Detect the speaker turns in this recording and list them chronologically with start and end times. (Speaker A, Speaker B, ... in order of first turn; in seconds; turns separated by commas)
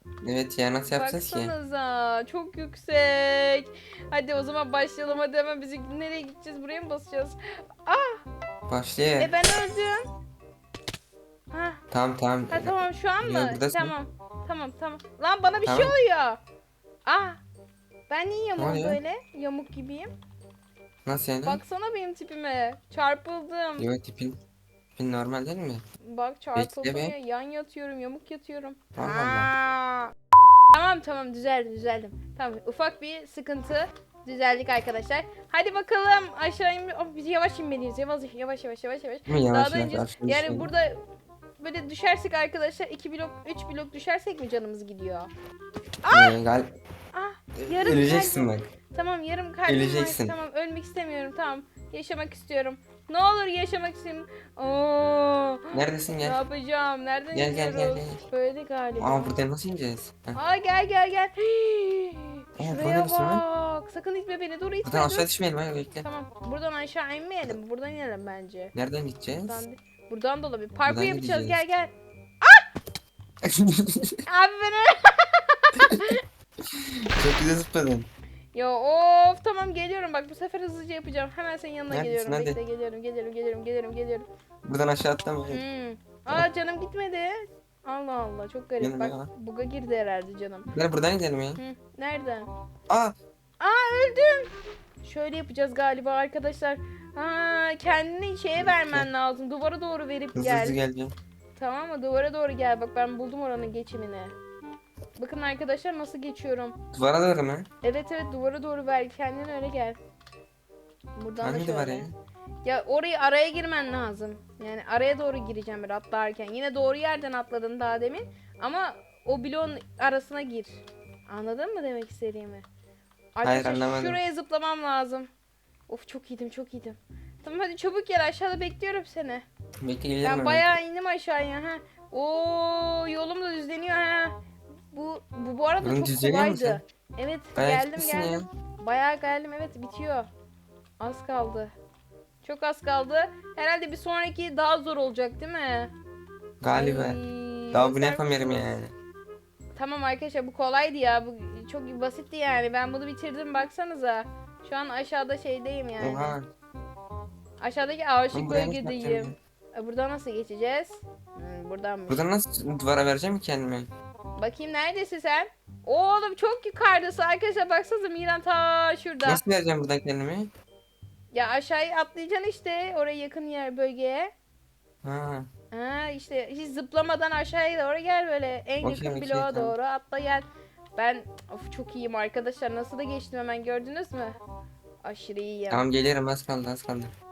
Speaker A: 0.2-1.5, Speaker B: 0.9-8.2, Speaker A: 8.7-9.3, Speaker B: 9.2-10.1, Speaker B: 11.5-11.8, Speaker A: 11.9-13.9, Speaker B: 12.5-16.4, Speaker A: 15.6-15.9, Speaker B: 17.0-17.4, Speaker B: 18.1-20.1, Speaker A: 18.6-19.0, Speaker A: 21.0-21.6, Speaker B: 21.4-23.9, Speaker A: 23.8-24.4, Speaker A: 25.0-25.8, Speaker B: 26.0-30.1, Speaker A: 26.5-27.1, Speaker A: 28.9-29.5, Speaker B: 30.7-41.0, Speaker A: 39.3-40.7, Speaker B: 41.6-45.3, Speaker B: 46.0-46.4, Speaker A: 46.1-46.7, Speaker B: 47.1-59.4, Speaker A: 47.6-48.7, Speaker A: 49.7-50.4, Speaker A: 55.7-56.4, Speaker A: 57.3-58.2, Speaker A: 59.0-60.4, Speaker B: 60.3-65.3, Speaker A: 62.6-63.4, Speaker A: 64.8-66.1, Speaker B: 66.0-68.7, Speaker A: 68.7-69.6, Speaker B: 69.5-72.6, Speaker A: 70.8-71.6, Speaker A: 73.4-74.2, Speaker B: 74.3-76.2, Speaker A: 75.8-78.1, Speaker B: 78.5-84.2, Speaker A: 81.9-82.6, Speaker A: 84.6-85.6, Speaker B: 85.5-90.7, Speaker A: 88.8-89.3, Speaker A: 90.7-91.6, Speaker B: 91.6-92.5, Speaker A: 92.9-93.1, Speaker B: 93.6-94.5, Speaker B: 95.0-100.8, Speaker A: 98.5-99.1, Speaker A: 100.3-101.1, Speaker B: 101.5-104.3, Speaker B: 105.2-106.8, Speaker A: 106.9-107.7, Speaker B: 107.8-110.0, Speaker B: 111.2-112.1, Speaker A: 111.4-112.1, Speaker B: 112.6-122.6, Speaker B: 123.3-125.3, Speaker A: 123.4-124.2, Speaker B: 125.9-129.4, Speaker A: 129.8-130.6, Speaker B: 130.2-134.3, Speaker B: 134.9-140.3, Speaker A: 135.8-136.8, Speaker A: 137.6-138.4, Speaker B: 141.0-141.7, Speaker B: 142.4-145.9, Speaker A: 146.6-148.9, Speaker B: 146.7-148.7, Speaker B: 149.8-156.4, Speaker A: 156.0-156.5, Speaker B: 157.6-162.2, Speaker A: 158.3-159.3, Speaker A: 162.1-163.9, Speaker B: 164.4-169.4, Speaker A: 169.2-170.5, Speaker B: 171.3-174.3, Speaker A: 175.0-175.5, Speaker B: 175.7-184.4, Speaker A: 178.8-179.7, Speaker B: 185.0-185.8, Speaker A: 185.7-187.1